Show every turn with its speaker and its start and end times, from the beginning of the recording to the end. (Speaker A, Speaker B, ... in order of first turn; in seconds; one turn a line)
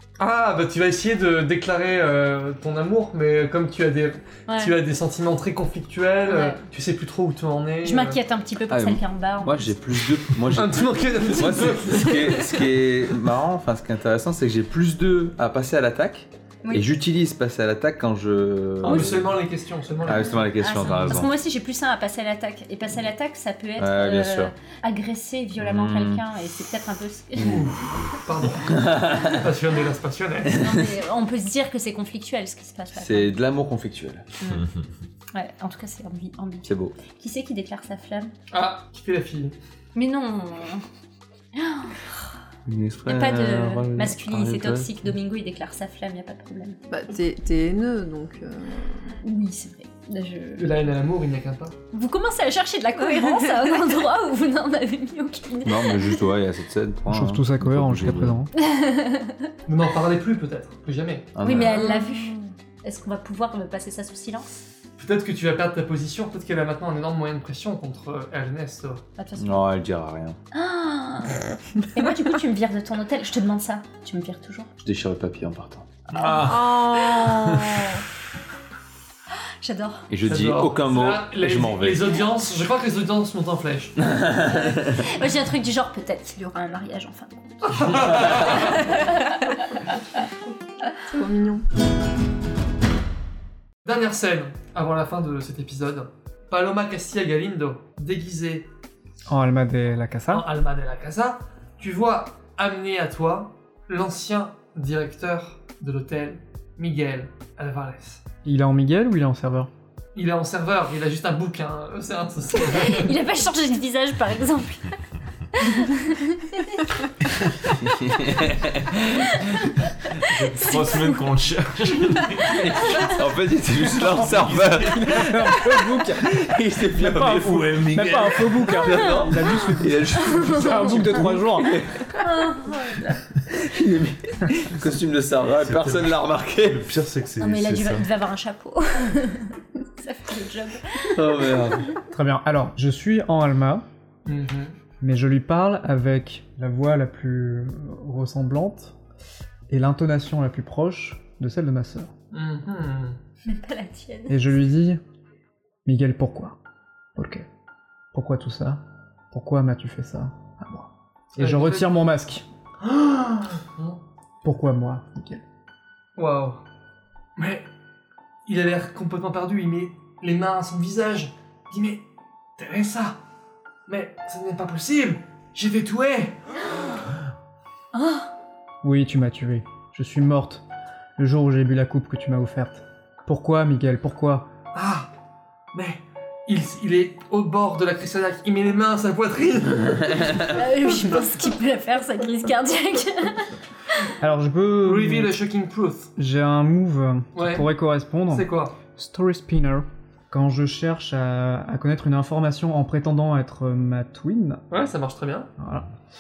Speaker A: 0.2-8.2
Speaker B: 4.5-4.8
Speaker B: 6.3-6.6
Speaker B: 7.8-9.7
Speaker C: 8.7-19.4
Speaker A: 10.5-12.4
Speaker B: 12.2-12.6
Speaker B: 16.6-16.9
Speaker A: 18.8-21.2
Speaker C: 20.1-21.3
Speaker B: 20.6-27.6
Speaker C: 23.8-24.5
Speaker C: 25.6-26.2
Speaker A: 27.4-30.6
Speaker B: 30.6-33.4
Speaker C: 32.9-34.6
Speaker D: 34.5-34.9
Speaker B: 35.4-38.3
Speaker C: 36.6-37.0
Speaker A: 38.5-39.5
Speaker B: 40.0-40.8
Speaker B: 41.6-42.0
Speaker C: 42.7-45.0
Speaker B: 43.1-46.8
Speaker E: 46.9-49.1
Speaker B: 49.2-50.7
Speaker A: 50.6-51.7
Speaker B: 51.9-56.3
Speaker C: 55.6-58.4
Speaker F: 57.1-58.5
Speaker B: 58.6-59.5
Speaker A: 59.7-61.3
Speaker C: 61.4-61.8
Speaker B: 61.4-64.5
Speaker E: 61.7-62.1
Speaker A: 65.0-69.0
Speaker B: 69.2-69.7
Speaker C: 69.4-70.4
Speaker B: 70.5-74.7
Speaker C: 74.8-76.1
Speaker D: 76.1-76.8
Speaker E: 76.4-78.0
Speaker B: 77.1-77.4
Speaker D: 77.4-77.8
Speaker B: 79.6-80.1
Speaker C: 80.1-82.1
Speaker A: 80.3-84.0
Speaker B: 84.5-89.8
Speaker A: 87.7-88.8
Speaker E: 91.1-91.7
Speaker A: 93.8-98.7
Speaker F: 99.3-100.5
Speaker A: 100.3-108.2
Speaker F: 108.5-109.7
Speaker A: 110.1-113.1
Speaker B: 112.6-114.9
Speaker B: 115.5-117.1
Speaker C: 117.9-119.3
Speaker B: 119.3-119.9
Speaker D: 120.3-123.1
Speaker B: 120.5-121.3
Speaker B: 122.2-123.2
Speaker C: 122.6-125.0
Speaker D: 123.8-125.4
Speaker F: 124.9-131.8
Speaker C: 126.5-128.1
Speaker D: 127.0-129.2
Speaker C: 129.1-132.2
Speaker B: 130.3-131.2
Speaker B: 132.2-133.1
Speaker C: 133.1-136.9
Speaker D: 135.6-138.1
Speaker B: 137.4-141.4
Speaker C: 141.1-141.9
Speaker F: 142.1-143.8
Speaker A: 144.3-144.7
Speaker F: 145.0-149.0
Speaker F: 149.7-152.1
Speaker A: 152.3-153.2
Speaker B: 153.4-154.4
Speaker F: 154.3-155.0
Speaker F: 155.9-156.6
Speaker F: 157.2-157.4
Speaker F: 158.1-162.4
Speaker A: 161.4-161.9
Speaker A: 162.8-164.0
Speaker F: 164.4-165.4
Speaker A: 166.2-166.6
Speaker A: 167.4-167.7
Speaker A: 168.5-172.0
Speaker A: 172.6-173.2
Speaker A: 173.9-176.4
Speaker B: 177.9-178.3
Speaker F: 178.8-180.7
Speaker F: 181.2-184.5
Speaker A: 184.8-185.1
Speaker A: 185.7-190.4
Speaker B: 190.4-193.5
Speaker F: 194.2-195.4
Speaker A: 194.8-196.1
Speaker F: 196.2-204.6
Speaker A: 197.3-197.7
Speaker A: 198.3-198.8
Speaker A: 204.7-205.5
Speaker F: 205.6-205.9